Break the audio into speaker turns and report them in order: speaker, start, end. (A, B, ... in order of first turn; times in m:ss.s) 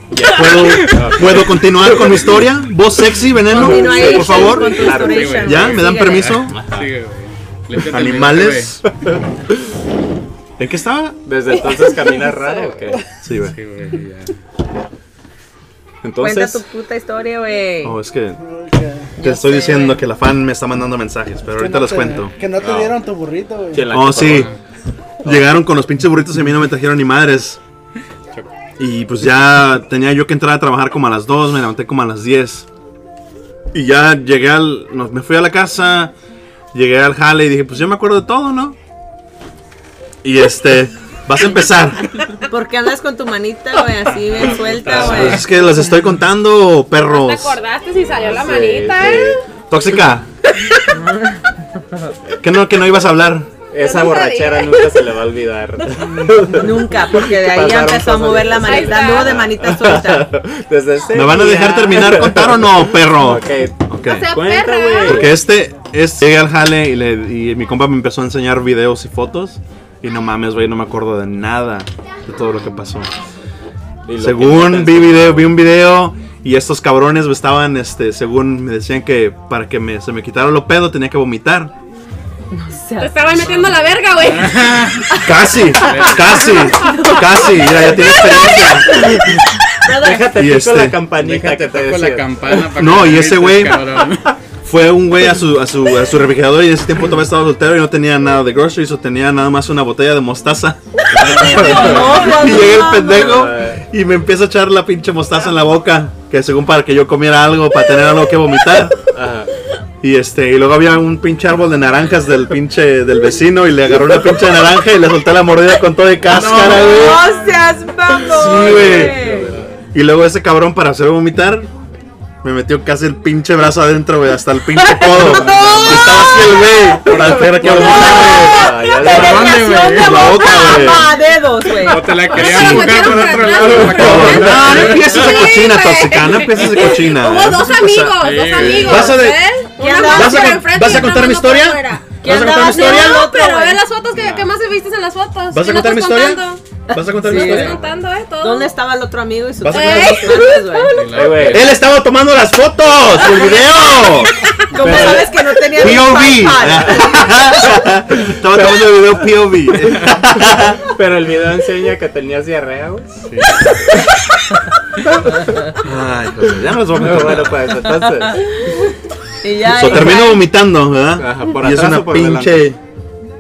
0:00.1-0:02.2 A
0:00.2-0:06.6 B
0:03.5-0:06.4 C
0:03.5-0:05.6 A
0:04.2-0:08.8 D
0:06.5-0:06.9 A
0:07.9-0:08.8 B
0:10.6-0:11.2 B
0:11.3-0:13.0 A
0:13.2-0:13.6 B
0:13.4-0:14.4 D
0:16.0-0:16.6 A
0:16.2-0:18.0 C
0:17.8-0:18.4 B
0:18.4-0:19.1 E
0:19.2-0:20.0 C
0:19.2-0:22.3 B
0:21.6-0:24.0 E
0:22.6-0:23.0 A
0:23.7-0:24.6 A
0:23.9-0:24.5 B
0:25.2-0:27.6 B
0:28.8-0:32.7 B
0:33.7-0:36.1 B
0:36.7-0:38.8 B
0:40.2-0:42.0 B
0:42.5-0:45.5 C
0:44.1-0:45.5 D
0:45.0-0:47.6 B
0:47.0-0:49.4 F
0:48.0-0:49.4 A
0:49.7-0:50.6 B
0:52.4-0:53.5 B
0:53.7-1:05.3 A
0:53.8-0:55.0 F
0:56.5-1:00.3 C
0:58.6-0:59.4 F
1:01.1-1:04.4 B
1:04.0-1:05.3 F
1:05.0-1:13.1 B
1:14.1-1:15.6 A
1:14.2-1:21.7 B
1:22.5-1:23.7 C
1:23.0-1:24.8 F
1:24.2-1:25.2 D
1:25.2-1:29.2 B
1:25.8-1:26.7 D
1:26.8-1:27.8 C
1:28.8-1:29.3 C
1:29.8-1:30.3 C
1:29.9-1:32.8 A
1:30.3-1:31.0 B
1:31.1-1:34.4 D
1:32.7-1:34.0 B
1:34.6-1:49.0 B
1:41.1-1:42.6 A
1:41.1-1:43.3 C
1:43.1-1:43.8 A
1:49.1-1:49.5 A
1:50.0-1:57.2 B
1:56.4-1:56.8 A
1:56.4-1:57.6 D
1:56.7-1:59.5 C
1:58.3-1:59.2 B
1:58.4-1:59.6 A
1:58.5-1:59.9 D
1:59.9-2:01.7 B
2:02.4-2:08.7 B
2:04.8-2:06.4 C
2:05.1-2:06.6 A
2:07.1-2:09.9 A
2:07.3-2:10.4 D
2:08.9-2:12.2 C
2:10.0-2:11.1 B
2:11.8-2:15.4 D
2:12.2-2:28.7 F
2:12.3-2:19.4 B
2:13.6-2:14.3 A
2:18.2-2:19.2 D
2:19.8-2:20.8 C
2:20.0-2:23.3 B
2:22.2-2:23.8 C
2:24.1-2:24.6 A
2:25.5-2:27.8 B
2:27.2-2:27.7 C
2:27.5-2:28.0 A
2:28.4-2:31.0 C
2:29.6-2:30.6 B
2:29.6-2:31.1 F
2:31.0-2:31.8 D
2:31.1-2:31.7 A
2:31.5-2:40.8 B
2:33.1-2:34.5 F
2:34.7-2:37.4 C
2:34.8-2:35.0 D
2:34.8-2:35.2 A
2:36.8-2:37.1 A
2:38.5-2:38.9 A
2:40.9-2:43.3 A
2:43.3-2:43.6 D
2:45.8-2:47.8 B
2:47.0-2:48.4 A
2:49.4-2:50.5 C
2:49.6-2:52.8 B
2:51.2-2:52.7 A